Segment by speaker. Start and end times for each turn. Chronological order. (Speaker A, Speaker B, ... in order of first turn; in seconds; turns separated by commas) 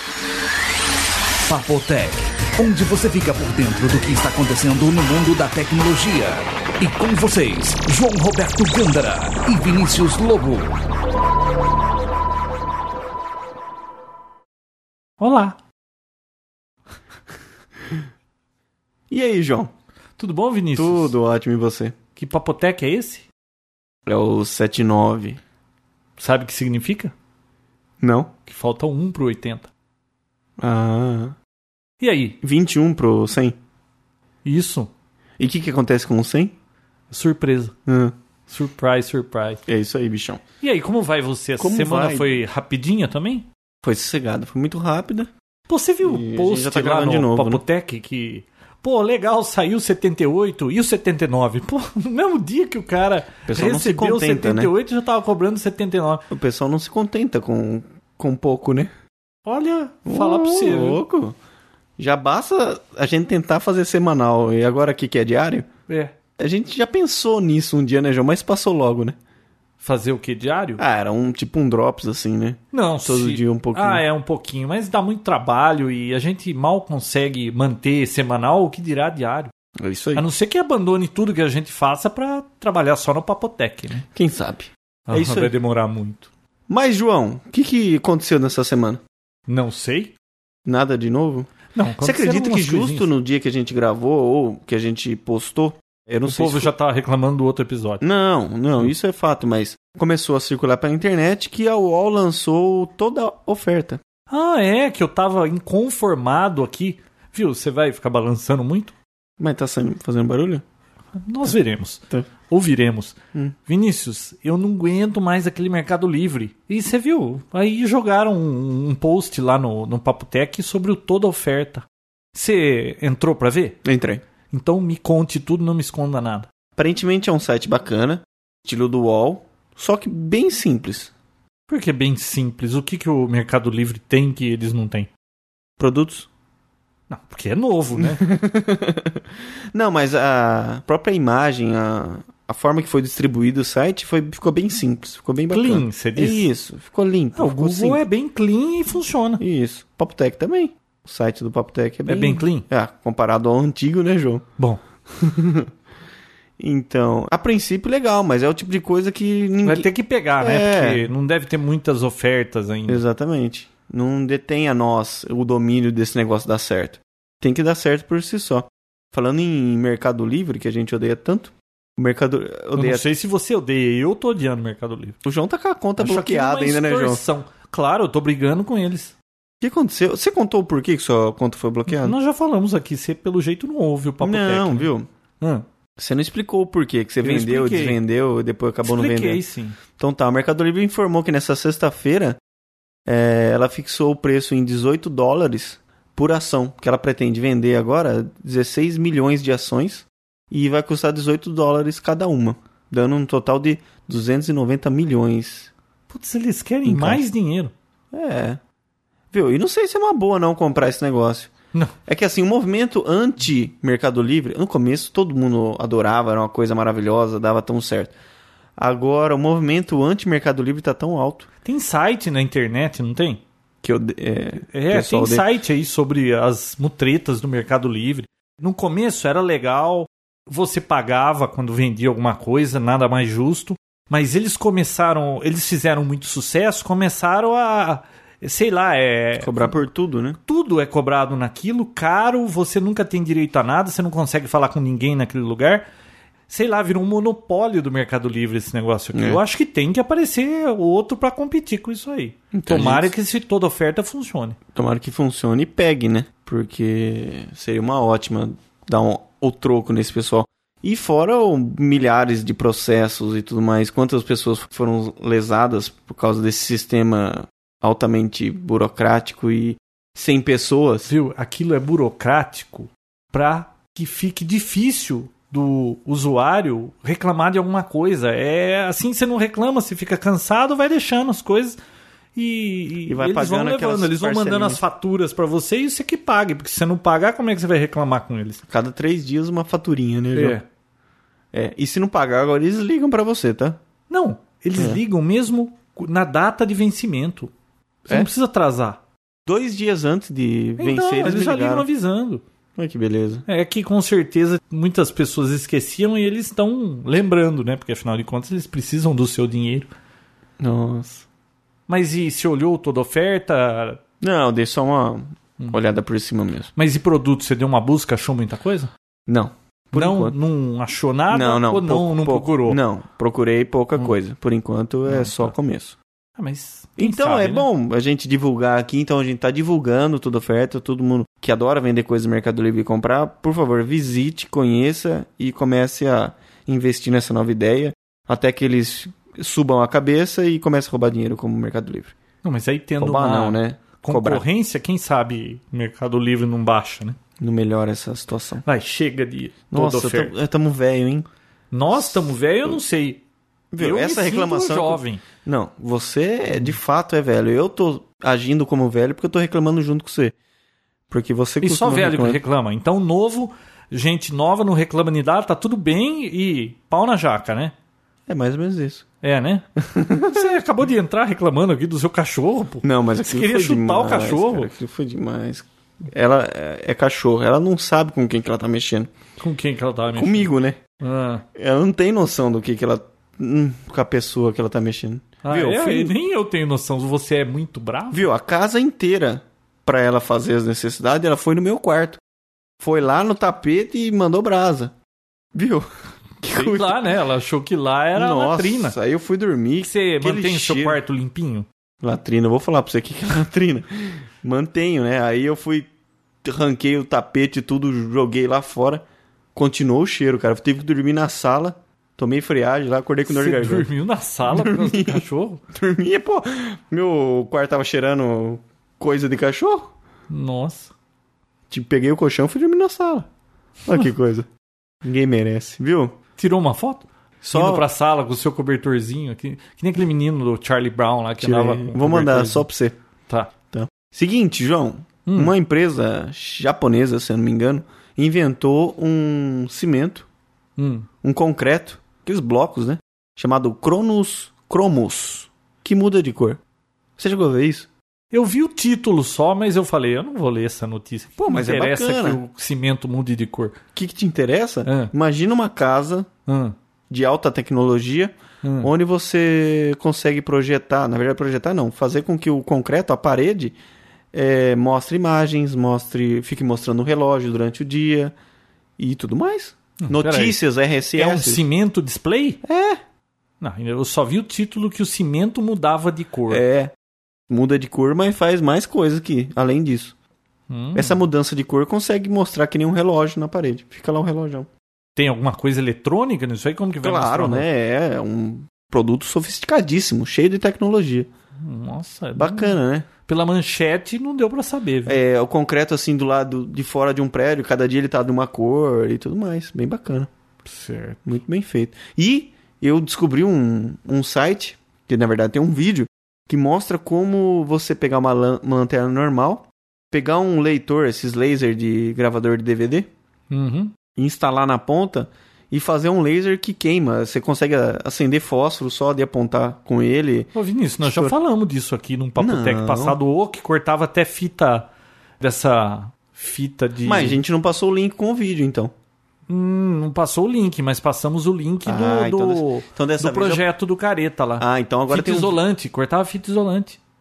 Speaker A: 1.5-10.7, Speaker B: 15.2-15.6, Speaker C: 19.1-19.7, Speaker B: 20.2-21.1, Speaker C: 20.8-21.9, Speaker B: 22.1-23.2, Speaker C: 24.1-25.4, Speaker B: 26.2-27.1, Speaker C: 28.0-28.3, Speaker B: 28.5-29.7, Speaker C: 30.6-31.3, Speaker B: 32.0-32.4, Speaker C: 32.4-33.5, Speaker B: 34.4-34.9, Speaker C: 35.4-36.5, Speaker B: 37.1-37.7, Speaker C: 37.9-38.1, Speaker B: 38.5-39.6, Speaker C: 39.6-40.4, Speaker B: 40.6-43.5, Speaker C: 41.6-42.3, Speaker C: 43.8-45.3, Speaker B: 45.7-56.2, Speaker C: 46.0-47.6, Speaker C: 53.5-54.7, Speaker C: 56.3-58.9, Speaker B: 59.4-61.0, Speaker C: 60.0-61.3, Speaker C: 62.0-65.7, Speaker B: 65.9-66.1, Speaker C: 66.4-69.2, Speaker B: 69.8-70.8, Speaker C: 70.8-74.0, Speaker B: 72.7-79.5, Speaker C: 79.8-80.2, Speaker B: 80.1-84.0, Speaker C: 84.1-85.5, Speaker B: 85.1-86.3, Speaker C: 86.7-89.0, Speaker B: 89.5-90.1, Speaker C: 90.7-96.7, Speaker B: 91.7-93.1, Speaker B: 96.3-98.0, Speaker C: 98.0-104.0, Speaker B: 104.3-108.9, Speaker C: 109.4-110.6, Speaker B: 111.1-123.8, Speaker C: 123.8-124.2, Speaker B: 124.5-126.5, Speaker C: 126.8-131.1, Speaker B: 131.7-135.1, Speaker C: 135.8-136.3, Speaker B: 137.1-138.2, Speaker C: 138.0-148.0, Speaker B: 145.5-146.4, Speaker B: 147.3-149.4, Speaker C: 149.4-154.4, Speaker B: 152.1-152.7, Speaker C: 155.1-155.7, Speaker C: 156.6-159.9, Speaker B: 159.6-163.0, Speaker C: 160.4-161.1, Speaker C: 162.9-173.1, Speaker B: 172.8-175.2, Speaker C: 175.2-177.2, Speaker B: 176.0-179.1, Speaker C: 179.6-182.2, Speaker B: 181.9-184.9, Speaker C: 184.2-185.1, Speaker B: 185.4-185.7, Speaker C: 186.0-189.4, Speaker B: 187.2-188.0, Speaker B: 188.8-189.8, Speaker C: 190.0-192.4, Speaker C: 193.1-205.7, Speaker B: 206.1-207.7, Speaker C: 206.8-207.2, Speaker C: 208.1-208.6, Speaker C: 209.3-211.5, Speaker C: 212.1-218.1, Speaker C: 218.8-221.5, Speaker B: 221.6-223.4, Speaker C: 223.8-225.4, Speaker B: 224.7-239.8, Speaker C: 239.4-240.4, Speaker B: 240.5-245.8, Speaker B: 246.5-254.6, Speaker C: 249.1-249.4, Speaker C: 252.5-253.1, Speaker C: 254.7-271.1, Speaker B: 271.1-281.8, Speaker B: 282.3-288.6, Speaker C: 283.1-284.8, Speaker C: 288.7-290.6, Speaker B: 290.3-290.6, Speaker C: 291.5-293.8, Speaker B: 294.1-297.5, Speaker B: 298.1-299.0, Speaker C: 299.5-301.9, Speaker B: 300.8-302.4, Speaker C: 302.8-303.4, Speaker B: 303.5-309.9, Speaker C: 310.6-311.2, Speaker B: 311.9-314.0, Speaker C: 314.2-316.7, Speaker B: 316.7-318.9, Speaker C: 319.3-320.3, Speaker B: 319.9-322.8, Speaker C: 321.3-326.0, Speaker B: 325.1-325.5, Speaker B: 326.4-327.7, Speaker C: 327.0-342.1, Speaker B: 342.4-347.2, Speaker C: 343.0-344.4, Speaker C: 347.4-348.6, Speaker B: 348.6-350.3, Speaker C: 349.7-351.3, Speaker B: 351.7-353.2, Speaker C: 351.9-352.8, Speaker C: 353.7-360.3, Speaker B: 353.8-355.2, Speaker C: 361.1-362.4, Speaker B: 361.6-367.7, Speaker C: 368.3-369.0, Speaker B: 369.2-369.7, Speaker C: 369.8-370.5, Speaker B: 370.2-374.7, Speaker C: 372.8-379.1, Speaker B: 379.4-381.4, Speaker C: 380.1-380.8, Speaker C: 381.5-386.1, Speaker B: 385.4-388.3, Speaker C: 388.1-392.2, Speaker C: 392.8-394.9, Speaker C: 395.5-395.9, Speaker C: 396.4-397.0, Speaker B: 396.5-398.9, Speaker C: 398.1-401.0, Speaker B: 399.8-401.7, Speaker C: 402.0-405.9, Speaker C: 406.4-409.0, Speaker C: 409.5-413.9, Speaker B: 413.3-415.6, Speaker C: 414.4-419.9, Speaker B: 420.3-420.9, Speaker C: 421.7-423.3, Speaker C: 423.8-424.5, Speaker C: 425.0-426.1, Speaker B: 426.4-432.7, Speaker C: 427.5-427.8, Speaker C: 431.4-433.0, Speaker C: 433.7-440.2, Speaker B: 435.2-435.5, Speaker B: 440.8-441.1, Speaker C: 441.2-446.6, Speaker C: 447.2-447.9, Speaker B: 448.3-453.8, Speaker C: 451.4-452.4, Speaker C: 453.9-456.3, Speaker B: 454.9-455.1, Speaker B: 456.5-456.7, Speaker C: 457.1-463.8, Speaker B: 458.6-458.9, Speaker C: 464.3-468.3, Speaker C: 469.0-471.6, Speaker B: 470.0-470.6, Speaker B: 471.1-472.6, Speaker C: 472.6-473.0, Speaker B: 473.6-476.6, Speaker C: 476.5-476.9, Speaker C: 477.5-480.1, Speaker B: 480.7-481.2, Speaker C: 480.9-484.7, Speaker B: 485.1-487.7, Speaker C: 487.0-491.3, Speaker B: 491.6-492.7, Speaker C: 492.4-493.1, Speaker B: 493.2-495.2, Speaker C: 495.1-500.3, Speaker B: 500.7-501.2, Speaker C: 501.2-513.1, Speaker B: 513.5-513.9, Speaker C: 514.1-521.3, Speaker B: 520.5-524.9, Speaker C: 522.4-523.2, Speaker B: 525.4-527.4, Speaker C: 527.0-528.9, Speaker B: 529.5-537.0, Speaker C: 531.8-533.6, Speaker C: 534.6-535.6